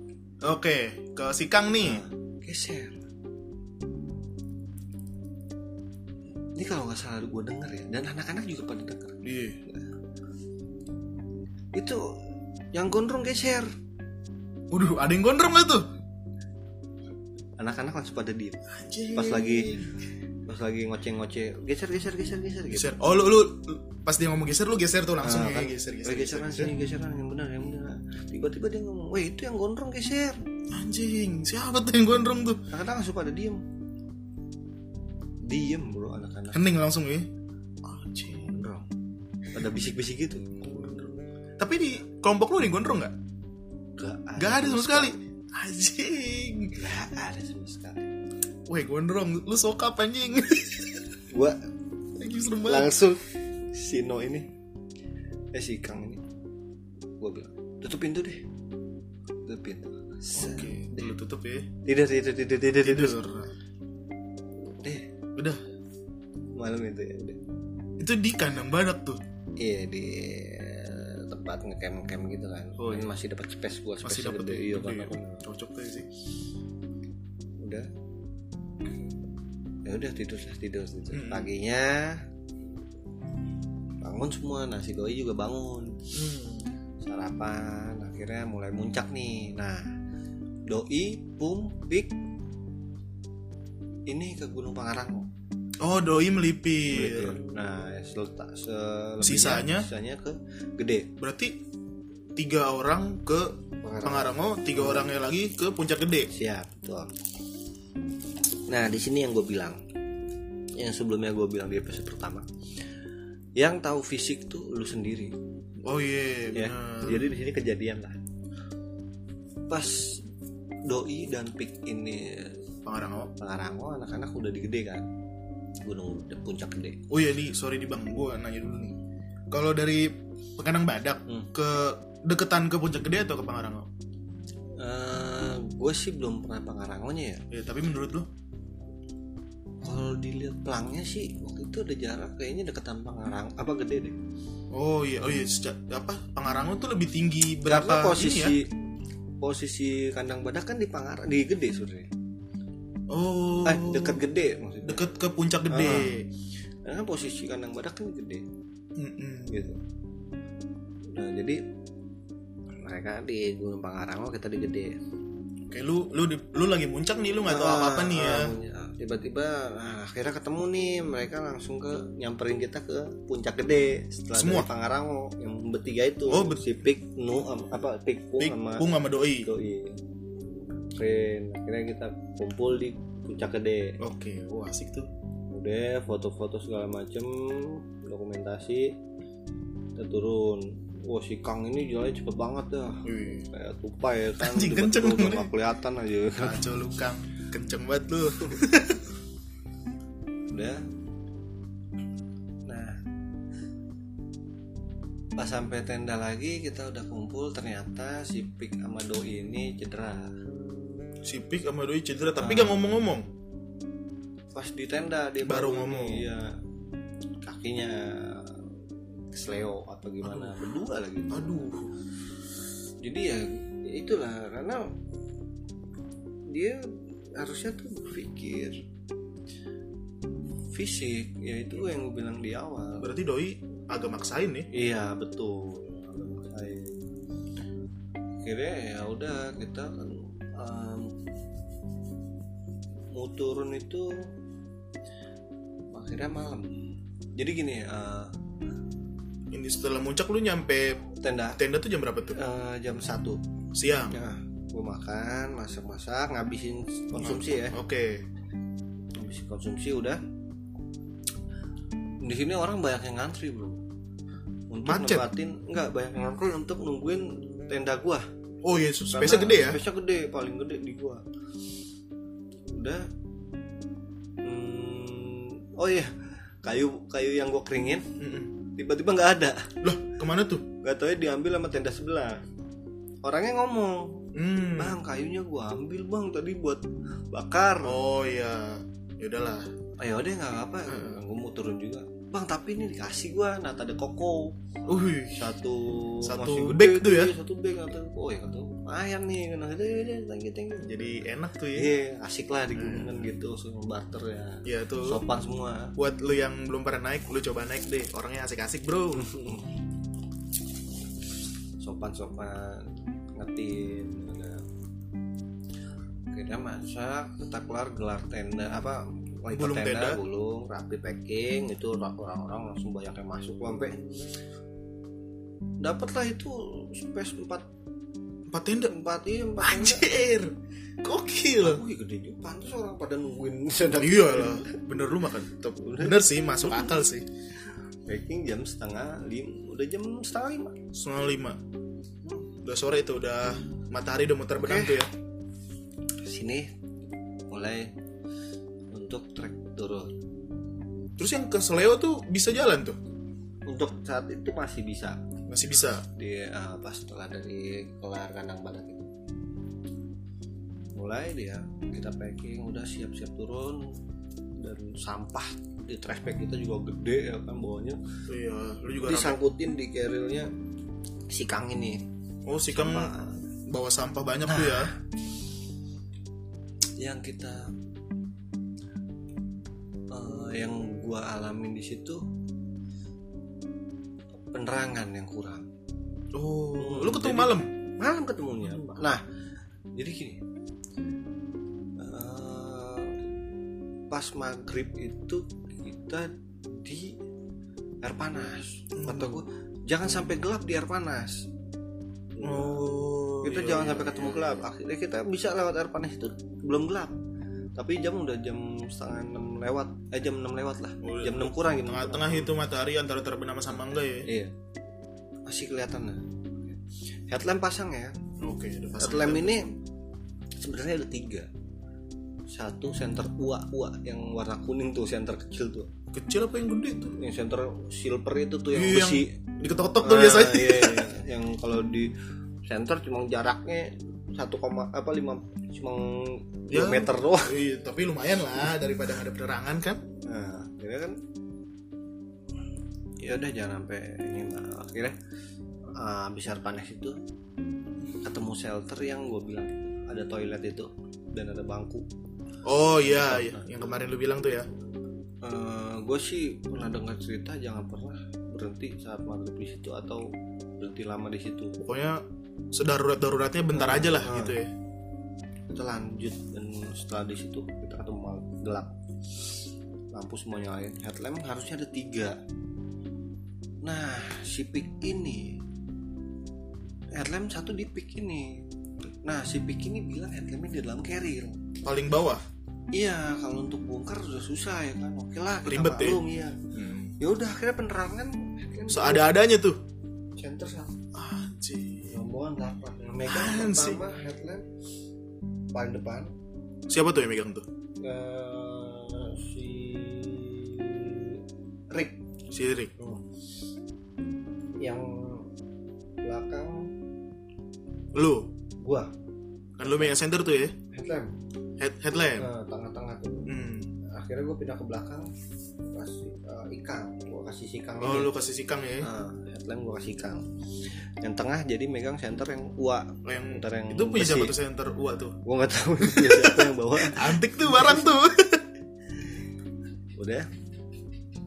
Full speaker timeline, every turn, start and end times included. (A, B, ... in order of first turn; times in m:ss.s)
0:00.4-0:02.0 A
0:01.8-0:03.0 B
0:06.6-0:09.8 B
0:09.2-0:09.6 A
0:11.7-0:12.0 B
0:12.7-0:13.7 B
0:14.7-0:15.9 A
0:17.6-0:18.6 B
0:18.7-0:19.9 A
0:19.1-0:19.7 B
0:20.5-0:22.9 B
0:22.7-0:26.7 A
0:25.2-0:30.4 B
0:30.7-0:32.6 A
0:32.7-0:33.6 B
0:35.4-0:36.6 B
0:36.5-0:37.3 A
0:37.8-0:38.6 A
0:38.3-0:38.9 B
0:39.5-0:40.7 B
0:40.6-0:43.1 A
0:44.0-0:45.2 B
0:44.4-0:46.8 A
0:46.8-0:48.1 B
0:48.7-0:51.0 A
0:51.3-0:51.6 B
0:52.2-0:53.0 A
0:52.6-0:54.5 B
0:55.5-0:56.2 B
0:57.2-0:58.4 B
0:59.4-1:01.2 B
1:00.4-1:01.7 A
1:01.8-1:03.2 B
1:02.8-1:03.5 A
1:04.7-1:05.1 B
1:06.6-1:07.4 B
1:08.0-1:09.2 A
1:09.6-1:15.4 B
1:12.8-1:13.1 A
1:14.0-1:16.1 A
1:17.6-1:17.9 B
1:19.8-1:22.2 B
1:21.1-1:21.5 A
1:24.0-1:26.1 B
1:26.1-1:26.7 A
1:27.0-1:29.9 B
1:30.7-1:32.1 B
1:34.1-1:35.3 B
1:35.8-1:37.4 A
1:36.9-1:41.1 B
1:39.2-1:39.9 A
1:41.2-1:41.6 A
1:42.4-1:46.3 A
1:43.8-1:45.1 B
1:46.3-1:47.1 B
1:48.7-1:49.8 B
1:50.8-1:52.5 B
1:53.6-1:55.3 B
1:55.8-1:57.3 A
1:56.5-1:58.2 B
1:59.7-2:00.2 B
2:00.9-2:02.6 B
2:02.9-2:03.3 A
2:03.4-2:05.1 B
2:05.8-2:07.0 B
2:07.1-2:09.0 A
2:09.5-2:13.9 A
2:14.8-2:17.4 B
2:17.5-2:18.3 A
2:19.8-2:24.2 B
2:24.7-2:28.6 A
2:27.7-2:28.7 B
2:29.4-2:32.1 B
2:33.1-2:34.2 A
2:33.6-2:35.0 B
2:34.8-2:36.3 A
2:35.7-2:36.1 B
2:36.8-2:38.4 B
2:39.0-2:39.6 A
2:39.5-2:39.8 B
2:41.1-2:41.6 B
2:42.8-2:45.0 B
2:45.7-2:48.5 A
2:47.5-2:58.9 B
2:54.3-2:54.7 A
2:56.3-2:56.7 A
2:58.4-2:59.5 A
2:59.4-3:00.0 B
3:01.0-3:04.0 B
3:04.0-3:05.1 A
3:05.5-3:08.9 B
3:10.0-3:16.6 B
3:13.0-3:13.5 A
3:14.4-3:15.5 A
3:16.4-3:19.0 A
3:20.5-3:20.8 B
3:22.7-3:23.0 B
3:25.4-3:30.3 B
3:31.2-3:33.3 A
3:32.4-3:32.8 B
3:34.5-3:36.5 B
3:35.4-3:36.3 A
3:37.4-3:38.6 B
3:39.3-3:41.7 B
3:40.2-3:40.6 A
3:41.3-3:42.0 A
3:43.0-3:44.9 B
3:46.5-3:46.8 B
3:47.4-3:48.8 B
3:50.7-3:53.1 B
3:53.0-3:54.7 A
3:54.7-3:57.0 B
3:58.4-4:01.1 B
4:03.1-4:04.3 B
4:05.9-4:06.8 B
4:07.4-4:08.3 B
4:09.5-4:11.1 A
4:11.2-4:11.6 B
4:11.6-4:12.4 A
4:12.3-4:13.4 B
4:13.7-4:14.2 A
4:14.1-4:17.8 B
4:17.2-4:18.2 A
4:19.2-4:20.2 B
4:22.2-4:23.8 B
4:24.7-4:28.3 B
4:24.8-4:25.3 A
4:28.6-4:29.8 A
4:29.1-4:31.2 B
4:32.7-4:33.1 B
4:34.4-4:36.1 B
4:36.6-4:38.1 B
4:38.2-4:38.5 A
4:38.8-4:39.7 B
4:39.8-4:40.6 A
4:40.8-4:42.4 B
4:43.2-4:48.0 B
4:44.3-4:45.0 A
4:47.8-4:49.7 A
4:50.0-4:54.6 B
4:50.9-4:51.2 A
4:54.9-4:55.5 A
4:55.3-5:01.2 B
4:56.2-4:57.3 A
5:00.8-5:01.9 A
5:01.7-5:05.9 B
5:02.8-5:03.3 A
5:04.6-5:05.2 A
5:06.0-5:09.3 A
5:09.1-5:09.7 B
5:11.8-5:14.6 B
5:16.3-5:24.0 B
5:19.5-5:20.2 A
5:25.8-5:27.7 B
5:28.5-5:28.9 A
5:28.9-5:30.1 B
5:29.6-5:31.8 A
5:31.6-5:34.8 B
5:34.0-5:37.3 A
5:35.8-5:37.0 B
5:38.1-5:40.8 B
5:40.9-5:41.6 A
5:42.6-5:45.1 A
5:44.6-5:45.0 B
5:46.2-5:46.7 B
5:47.5-5:47.9 B
5:48.9-5:50.2 B
5:51.2-5:53.0 A
5:53.7-5:55.2 B
5:55.5-5:56.1 A
5:56.2-5:59.1 B
6:01.0-6:04.0 B
6:04.6-6:08.0 B
6:08.3-6:09.4 A
6:09.0-6:10.5 B
6:11.3-6:12.0 B
6:12.5-6:13.1 A
6:12.7-6:13.5 B
6:13.7-6:14.9 A
6:14.5-6:14.9 B
6:17.0-6:17.7 B
6:20.1-6:22.2 B
6:24.4-6:25.7 B
6:26.3-6:27.7 A
6:26.8-6:29.2 B
6:28.7-6:29.0 A
6:30.0-6:30.4 B
6:32.0-6:33.2 B
6:34.1-6:37.2 B
6:38.0-6:41.5 B
6:39.0-6:39.4 A
6:42.4-6:47.2 B
6:42.4-6:44.6 A
6:47.8-6:52.5 B
6:51.0-6:54.3 A
6:54.2-6:54.5 B
6:55.5-6:58.2 B
6:58.4-6:59.7 A
6:59.0-6:59.7 B
7:00.6-7:01.5 B
7:02.5-7:05.9 B
7:06.1-7:07.2 A
7:07.2-7:09.4 B
7:08.7-7:11.1 A
7:10.0-7:17.6 B
7:16.7-7:20.0 A
7:20.2-7:21.2 B
7:23.2-7:25.2 B
7:26.0-7:27.2 B
7:28.2-7:32.1 B
7:32.6-7:34.7 A
7:33.0-7:33.7 B
7:35.4-7:40.3 B
7:40.8-7:41.8 B
7:41.8-7:44.7 A
7:43.7-7:44.6 B
7:45.7-7:48.9 B
7:50.1-7:52.4 B
7:53.8-7:55.6 B
7:57.1-7:58.6 B
7:59.2-8:01.6 B
8:01.8-8:02.4 A
8:02.9-8:06.6 B
8:05.7-8:07.1 A
8:07.2-8:09.3 B
8:08.9-8:09.8 A
8:10.4-8:11.0 B
8:11.1-8:12.2 A
8:12.1-8:14.7 B
8:13.3-8:14.0 A
8:15.7-8:16.3 B
8:16.9-8:17.7 A
8:18.0-8:22.2 B
8:22.5-8:22.9 A
8:23.0-8:23.2 B
8:24.8-8:25.5 B
8:26.2-8:26.9 B
8:28.1-8:28.5 A
8:28.8-8:29.1 B
8:29.8-8:30.8 A
8:29.8-8:30.2 B
8:30.9-8:31.4 B
8:31.8-8:32.5 A
8:32.4-8:33.5 B
8:33.5-8:33.9 A
8:34.1-8:35.3 B
8:35.8-8:38.3 B
8:38.0-8:39.1 A
8:39.0-8:44.5 B
8:43.2-8:45.4 A
8:45.4-8:48.1 B
8:46.0-8:48.6 A
8:50.2-8:50.5 B